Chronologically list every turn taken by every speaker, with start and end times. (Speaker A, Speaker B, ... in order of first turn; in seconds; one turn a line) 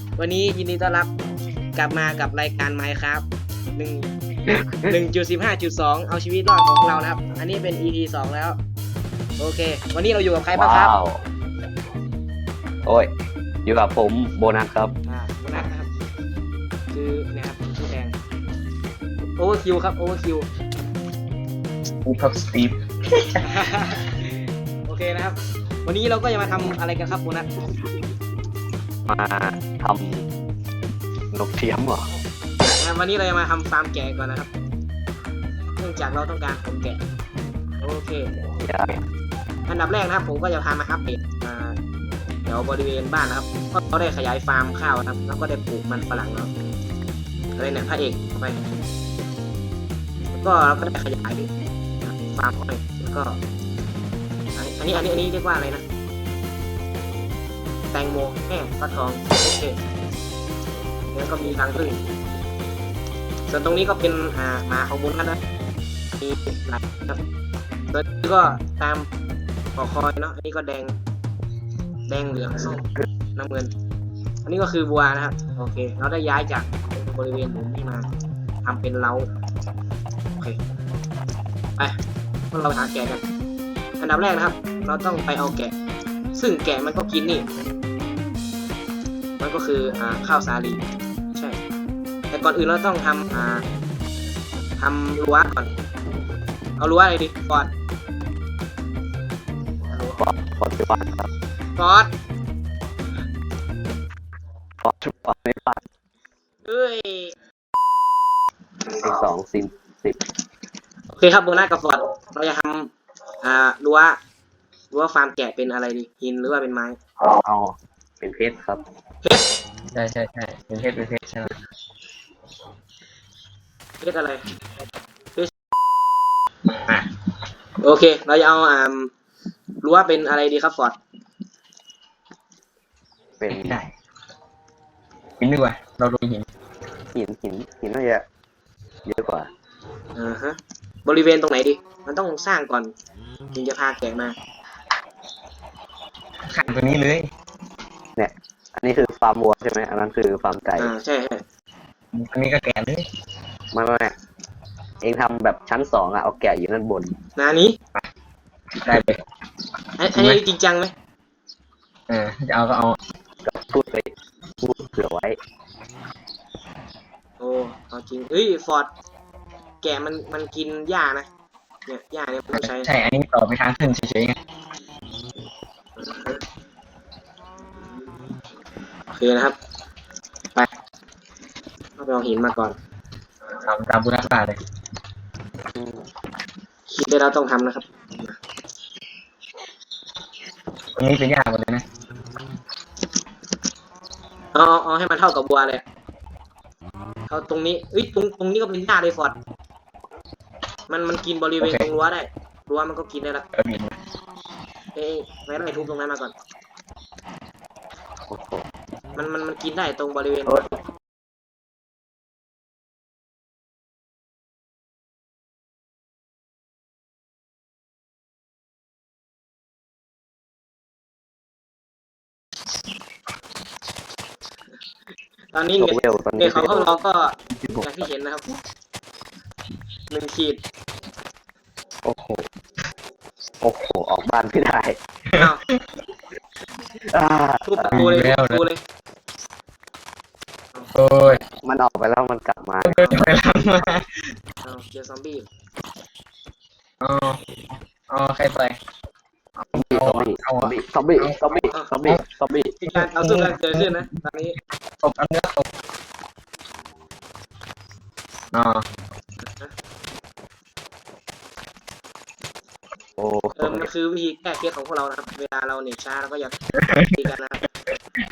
Speaker A: 0.2-1.1
Speaker A: 1.8-4.1
Speaker B: 4.5-5.0
Speaker A: 4.9-8.6
Speaker A: 9.4-10.9
Speaker B: 10.5-11.2
Speaker B: 12.8-13.1
Speaker B: 13.6-14.9
Speaker A: 15.1-15.9
Speaker A: 16.9-18.1
Speaker A: 19.4-20.5
Speaker C: 22.1-23.4
Speaker A: 23.4-27.5
Speaker B: 29.1-30.3
Speaker B: 31.3-32.0
Speaker A: 32.7-34.5
Speaker A: 35.8-37.0
Speaker A: 37.8-38.3
Speaker B: 38.6-39.0
Speaker A: 39.7-41.8
Speaker A: 42.5-46.5
Speaker A: 47.6-48.6
Speaker A: 50.4-51.5
Speaker A: 52.0-53.4
Speaker A: 54.5-55.8
Speaker A: 57.9-59.8
Speaker A: 61.1-62.0
Speaker A: 63.5-65.4
Speaker A: 66.2-67.2
Speaker A: 67.9-69.1
Speaker A: 69.8-70.9
Speaker A: 72.1-73.7
Speaker B: 72.8-73.0
Speaker A: 74.4-78.1
Speaker A: 78.6-79.3
Speaker A: 82.5-83.2
Speaker A: 84.0-85.7
Speaker A: 86.3-87.5
Speaker A: 89.4-90.8
Speaker A: 92.3-93.6
Speaker A: 94.8-95.7
Speaker A: 96.8-97.7
Speaker B: 100.2-101.3
Speaker A: 101.8-102.1
Speaker B: 104.8-105.8
Speaker A: 106.6-107.3
Speaker B: 108.9-110.2
Speaker A: 111.1-112.9
Speaker A: 113.4-114.2
Speaker A: 114.9-117.0
Speaker B: 117.4-118.8
Speaker C: 119.9-121.5
Speaker A: 124.0-124.4
Speaker C: 126.7-127.1
Speaker A: 127.8-129.1
Speaker A: 129.8-131.0
Speaker B: 133.4-133.8
Speaker C: 133.5-133.9
Speaker C: 135.4-136.5
Speaker B: 137.1-138.2
Speaker B: 139.1-139.5
Speaker A: 140.2-142.9
Speaker A: 143.5-144.3
Speaker C: 146.5-147.3
Speaker B: 148.2-150.9
Speaker A: 150.8-151.4
Speaker C: 152.1-153.0
Speaker B: 153.7-154.2
Speaker B: 155.0-157.2
Speaker A: 157.4-157.8
Speaker C: 158.8-159.2
Speaker A: 160.0-160.9
Speaker C: 160.1-160.4
Speaker C: 162.1-163.0
Speaker B: 163.4-165.4
Speaker A: 167.4-168.9
Speaker A: 169.8-171.3
Speaker A: 171.9-172.9
Speaker C: 172.5-174.4
Speaker A: 176.0-176.4
Speaker A: 179.1-179.6
Speaker A: 182.0-182.8
Speaker C: 183.6-184.6
Speaker B: 185.7-186.0
Speaker A: 186.9-188.4
Speaker C: 191.0-191.8
Speaker A: 194.5-195.8
Speaker A: 197.3-199.4
Speaker A: 200.9-203.5
Speaker C: 201.6-201.9
Speaker C: 203.5-203.9
Speaker A: 204.9-206.3
Speaker B: 208.3-208.7
Speaker A: 209.2-210.7
Speaker B: 210.5-210.8
Speaker A: 225.5-228.6
Speaker B: 225.8-227.0
Speaker B: 227.5-228.0
Speaker A: 230.1-230.6
Speaker B: 232.0-232.5
Speaker B: 233.6-235.0
Speaker C: 235.3-235.8
Speaker A: 235.4-235.7
Speaker B: 237.0-238.1
Speaker A: 237.7-238.8
Speaker C: 237.9-238.6
Speaker C: 240.9-241.4
Speaker B: 241.5-243.0
Speaker C: 242.8-244.2
Speaker A: 243.0-243.3
Speaker A: 244.6-245.5
Speaker C: 247.0-247.4
Speaker C: 248.1-248.8
Speaker C: 249.6-251.5
Speaker B: 249.9-252.8
Speaker A: 252.8-254.6
Speaker C: 252.9-254.0
Speaker C: 255.0-255.7
Speaker C: 258.5-258.9
Speaker B: 263.2-263.9
Speaker A: 263.6-266.6
Speaker C: 266.8-267.2
Speaker A: 267.1-267.7